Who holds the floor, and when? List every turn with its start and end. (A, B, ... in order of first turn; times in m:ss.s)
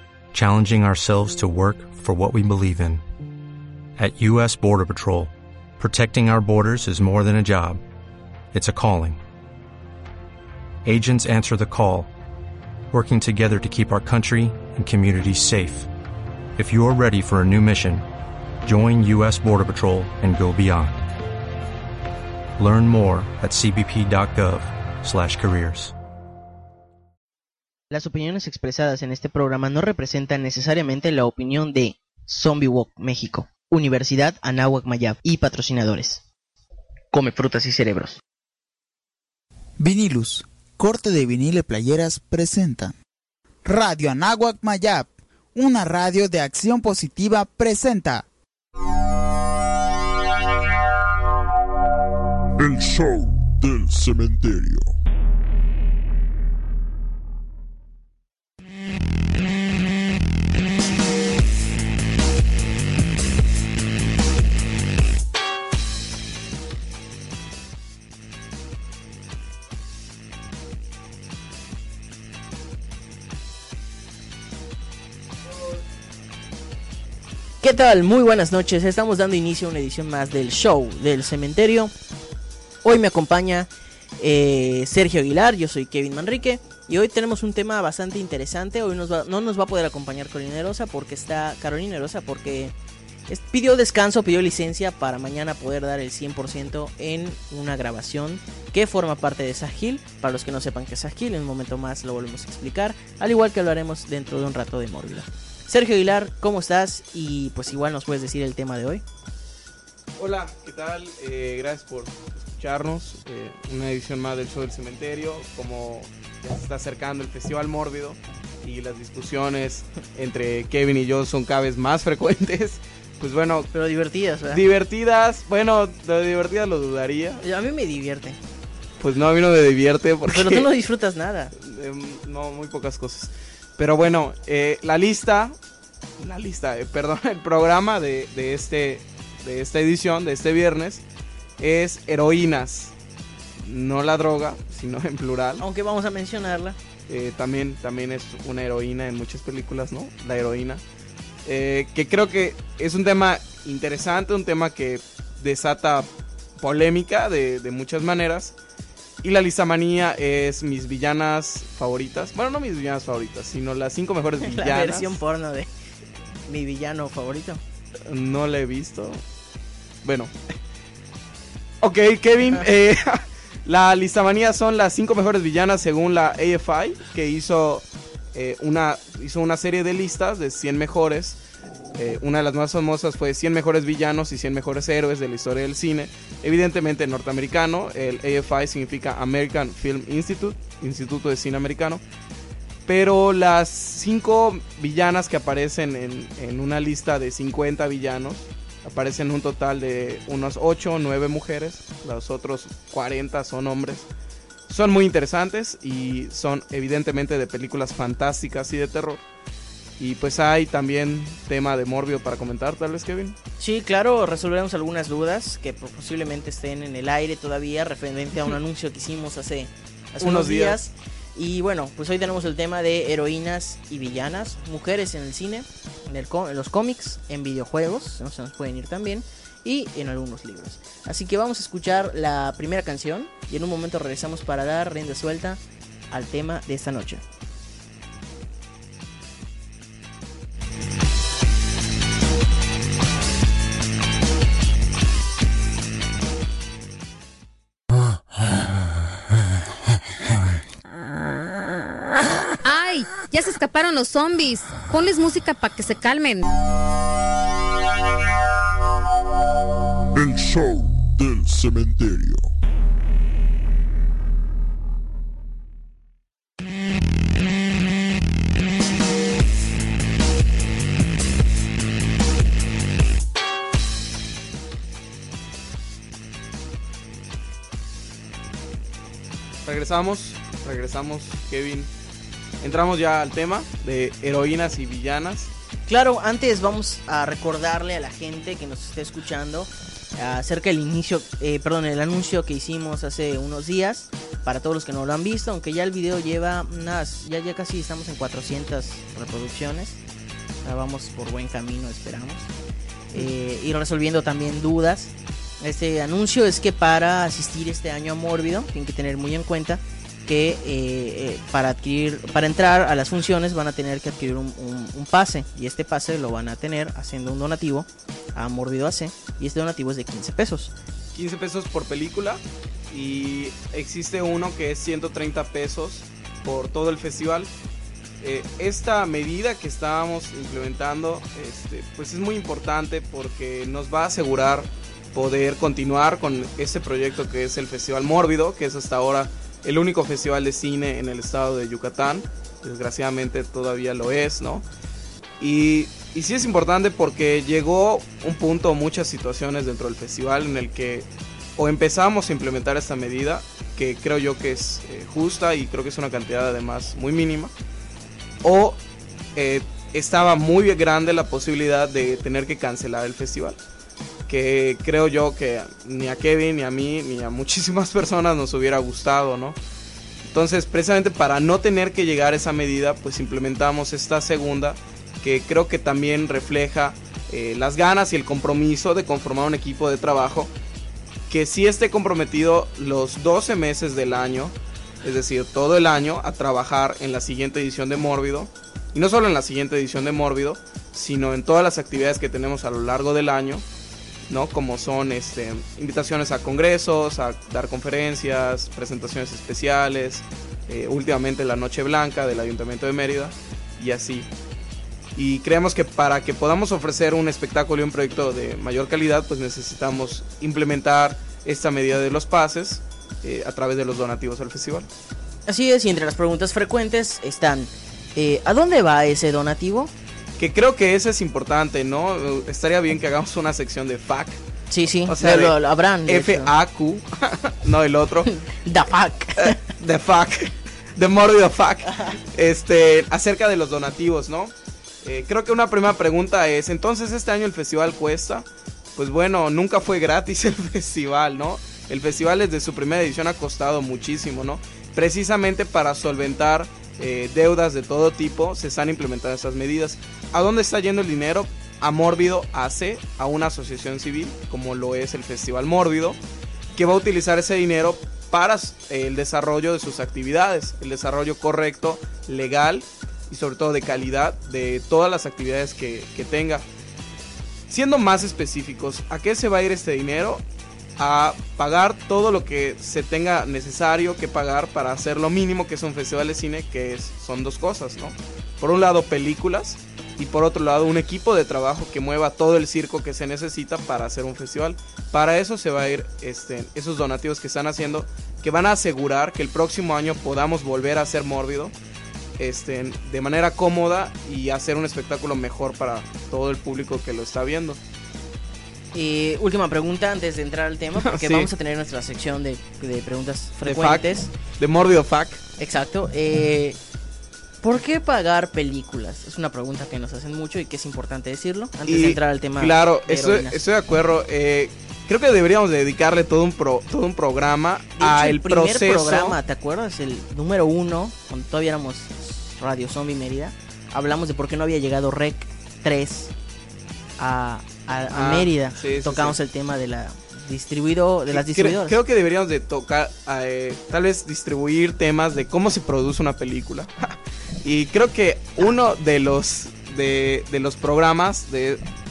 0:00.3-0:03.0 A
0:04.0-0:07.8 A
0:08.5-0:09.2 A
0:10.8-0:12.1 A
0:12.9-0:15.9 A
0:16.6-0:18.0 A
0:18.6-0:21.0 A
0:22.6-0:25.9 A
0:27.9-0:36.2 B
0:37.1-0:38.2 B
0:39.8-0:43.0 C
0:43.6-0:48.3 C
0:52.6-0:54.8 D
1:17.6-1:21.9 B
1:22.8-1:32.7 B
1:33.3-1:49.0 B
1:50.2-2:03.7 E
2:03.7-2:04.6 B
2:04.5-2:07.4 E
2:07.4-2:08.4 B
2:09.0-2:10.7 E
2:10.3-2:11.5 B
2:11.6-2:15.5 E
2:16.2-2:21.0 E
2:21.6-2:22.9 E
2:23.6-2:25.6 E
2:25.6-2:26.8 B
2:27.1-2:30.8 E
2:31.5-2:36.1 E
2:36.6-2:38.5 E
2:39.2-2:45.2 E
2:44.4-2:45.7 B
2:46.5-2:47.6 B
2:48.1-2:49.2 E
2:50.0-2:50.3 E
2:51.8-3:01.4 E
3:01.9-3:12.0 E
3:12.9-3:24.1 E
3:24.7-3:29.2 E
3:30.0-3:33.4 E
3:33.6-3:57.2 B
3:40.2-3:40.8 E
4:12.6-4:16.5 F
4:20.2-4:22.4 D
4:39.6-4:41.9 E
4:42.6-4:45.5 E
4:45.9-5:00.0 B
5:00.6-5:02.5 B
5:03.1-5:20.7 B
5:21.1-5:27.5 E
5:28.2-5:44.6 E
5:45.4-5:51.1 E
5:51.6-5:57.5 E
5:58.4-5:58.8 E
5:59.4-6:03.6 E
6:04.3-6:09.6 E
6:10.3-6:20.5 E
6:21.3-6:33.6 E
6:34.3-6:44.3 E
6:45.2-6:54.9 E
6:55.5-6:59.9 B
7:00.4-7:04.4 E
7:04.7-7:06.5 B
7:05.1-7:08.3 E
7:08.3-7:09.6 B
7:09.4-7:14.5 E
7:15.0-7:36.2 E
7:36.8-7:46.6 E
7:47.7-7:50.4 E
7:51.0-8:11.7 E
8:12.4-8:17.8 E
8:18.9-8:24.3 B
8:21.0-8:21.5 E
8:23.6-8:25.4 E
8:25.6-8:26.8 B
8:27.6-8:33.6 B
8:31.9-8:39.4 E
8:38.0-8:46.3 B
8:47.2-8:52.0 B
8:48.1-8:49.4 E
8:51.3-9:01.8 E